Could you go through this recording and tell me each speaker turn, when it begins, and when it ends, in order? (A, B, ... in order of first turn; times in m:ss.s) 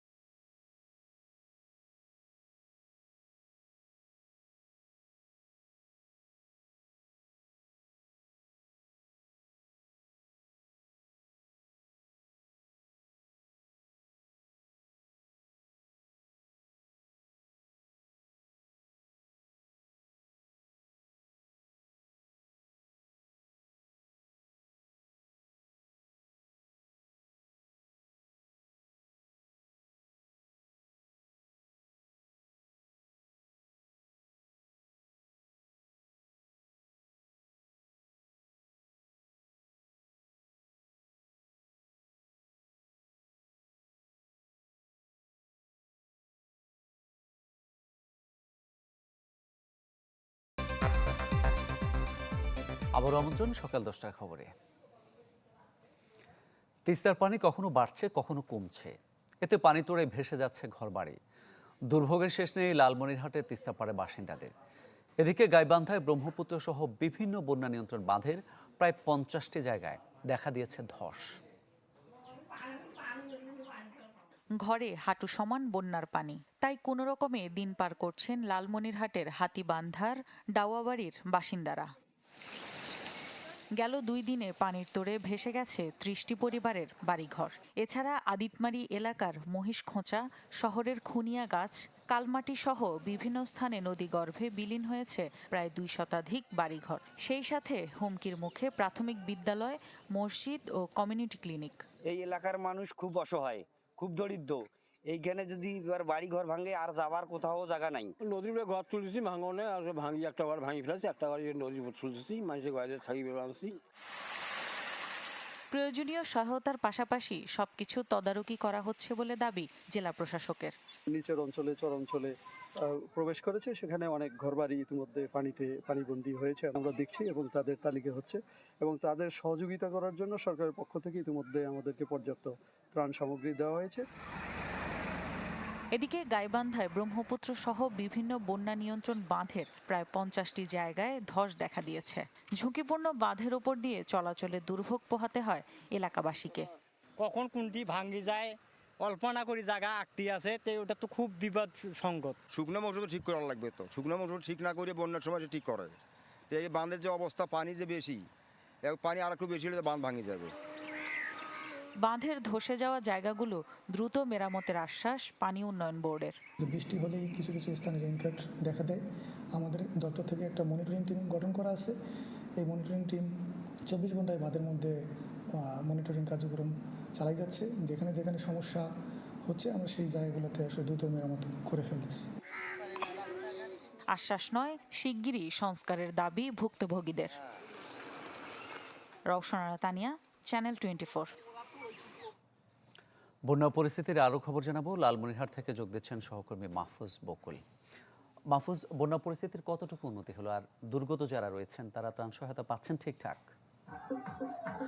0:53.0-0:54.5 A
0:56.9-1:01.2 A
1:01.9-1:04.5 A
1:05.2-1:11.4 A
1:14.6-1:21.9 B
1:23.8-1:41.8 B
1:42.0-1:48.1 C
1:48.2-1:53.8 D
1:55.7-2:00.7 B
2:01.1-2:02.3 E
2:02.8-2:14.0 E
2:16.0-2:26.7 B
2:27.2-2:32.4 F
2:32.5-2:36.0 G
2:36.5-2:38.2 G
2:38.8-2:40.5 G
2:42.1-2:46.4 B
2:46.6-2:49.0 H
2:49.6-2:51.9 H
2:52.6-2:53.2 H
2:53.9-2:54.9 H
2:55.9-2:58.8 H
2:59.5-3:02.2 H
3:04.2-3:07.4 B
3:09.3-3:11.3 B
3:13.5-3:17.6 A
3:18.5-3:23.4 A